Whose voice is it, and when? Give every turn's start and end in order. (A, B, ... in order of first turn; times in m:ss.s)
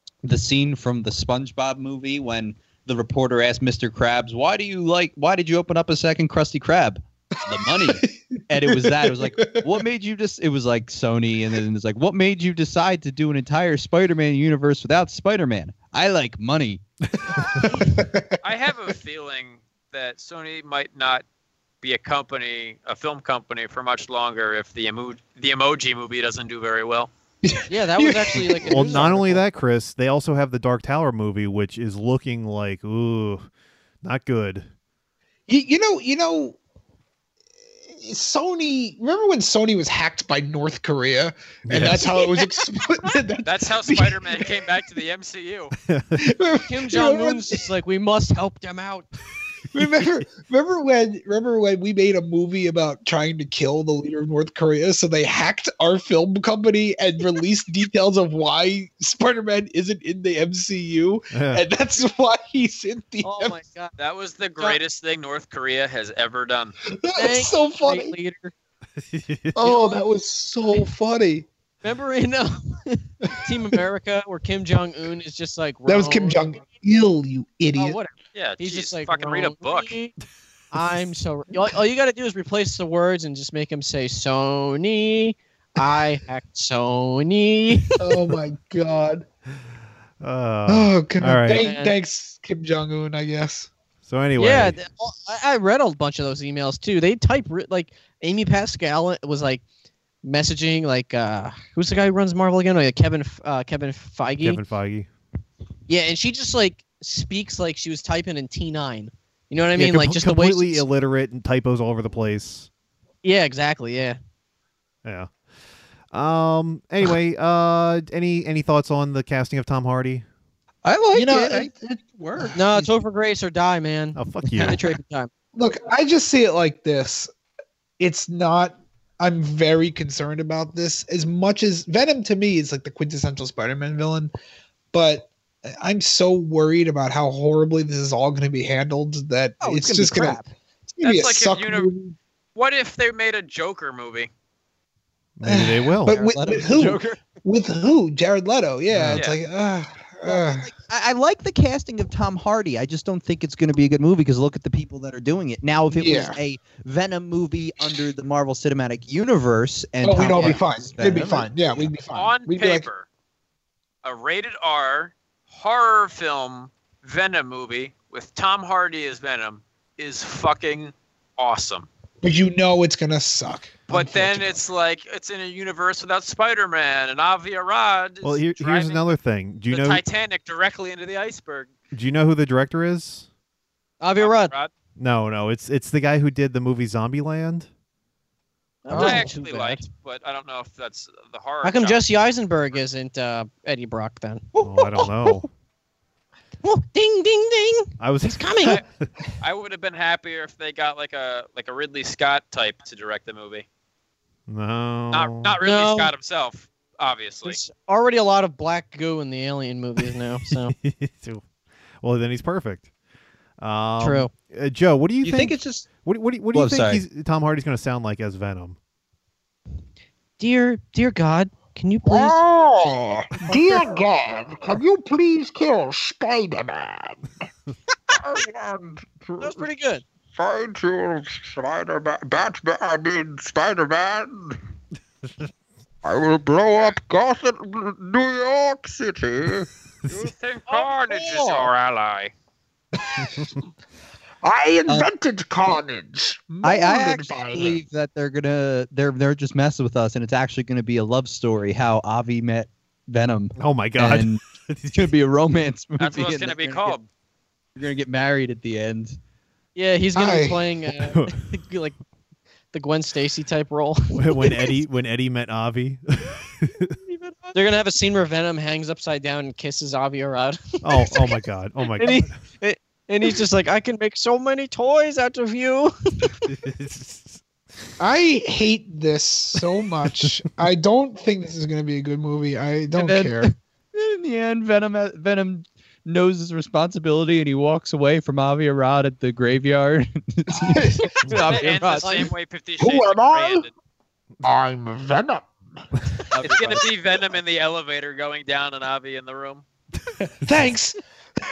0:00.2-0:16.8 A
0:07.5-0:09.8 B
0:17.4-0:18.4 B
0:18.4-0:21.2 C
0:21.8-0:27.1 C
0:27.4-0:29.2 B
0:27.7-0:29.4 D
0:28.7-0:33.5 E
0:34.0-0:34.7 E
0:35.5-0:36.6 B
0:38.0-0:44.7 B
0:41.7-0:42.1 E
0:43.4-0:45.7 C
0:45.9-0:46.2 E
0:46.2-0:47.6 B
0:46.7-0:49.1 D
0:49.7-1:03.6 B
1:01.3-1:01.6 E
1:03.2-1:03.9 D
1:04.0-1:06.8 C
1:06.9-1:08.1 B
1:07.2-1:08.5 D
1:09.0-1:09.7 E
1:09.5-1:11.5 B
1:09.6-1:10.0 D
1:11.8-1:16.4 D
1:15.8-1:18.0 B
1:17.8-1:20.1 D
1:18.3-1:19.9 C
1:20.7-1:27.9 D
1:28.0-1:29.3 B
1:30.2-1:31.6 E
1:30.7-1:33.7 B
1:31.6-1:31.9 D
1:34.0-1:34.8 E
1:34.4-1:39.6 D
1:40.2-1:44.6 D
1:44.4-1:45.1 E
1:45.9-1:50.8 D
1:49.7-1:52.7 E
1:53.2-1:54.2 D
1:55.0-1:55.3 E
1:56.1-2:00.2 E
2:00.8-2:02.9 A
2:01.1-2:02.6 B
2:02.5-2:05.3 D
2:04.1-2:04.8 E
2:05.5-2:07.3 B
2:08.0-2:14.3 B
2:14.9-2:20.4 B
2:19.6-2:20.5 A
2:20.9-2:22.1 B
2:21.0-2:21.9 C
2:22.5-2:24.3 C
2:25.4-2:26.2 E
2:25.4-2:30.7 B
2:26.1-2:27.2 A
2:28.9-2:29.2 E
2:30.2-2:41.5 A
2:35.9-2:36.4 B
2:40.0-2:42.9 B
2:42.1-2:43.0 C
2:44.0-2:51.9 C
2:52.2-2:54.5 B
2:53.9-2:59.1 C
2:58.2-3:00.0 E
2:59.7-3:01.7 C
3:01.9-3:03.3 E
3:04.0-3:04.5 D
3:04.2-3:04.7 C
3:05.0-3:07.7 E
3:08.8-3:09.8 D
3:08.9-3:12.0 C
3:08.9-3:09.3 B
3:11.6-3:15.0 D
3:14.6-3:15.5 E
3:16.6-3:18.8 D
3:18.0-3:18.8 E
3:19.4-3:23.6 C
3:24.5-3:25.6 E
3:25.1-3:27.6 C
3:25.6-3:26.1 D
3:27.4-3:30.7 D
3:30.5-3:31.4 E
3:32.0-3:32.9 E
3:33.6-3:38.8 E
3:34.0-3:34.3 D
3:35.2-3:35.9 A
3:36.5-3:37.0 A
3:40.4-3:42.4 D
3:42.0-3:47.2 F
3:48.1-3:49.7 F
3:49.4-3:50.0 D
3:50.3-3:54.6 F
3:56.0-4:00.3 F
4:00.1-4:02.3 C
4:00.7-4:01.5 D
4:04.4-4:07.8 F
4:06.5-4:07.4 B
4:06.6-4:14.4 A
4:13.6-4:15.1 E
4:14.9-4:17.0 A
4:16.0-4:17.1 C
4:17.8-4:19.2 A
4:19.8-4:22.0 D
4:20.1-4:20.6 B
4:21.0-4:21.3 E
4:22.7-4:24.7 D
4:24.2-4:26.9 E
4:27.1-4:27.5 A
4:27.5-4:31.4 D
4:30.8-4:32.3 E
4:32.0-4:36.4 D
4:36.5-4:37.4 E
4:38.0-4:43.5 B
4:42.9-4:52.3 A
4:50.6-4:51.4 B
4:51.3-4:53.7 C
4:52.0-4:52.3 D
4:52.8-4:53.6 B
4:53.0-4:53.3 F
4:54.4-4:55.5 F
4:56.3-4:56.9 A
4:56.4-4:59.6 C
5:00.4-5:01.0 B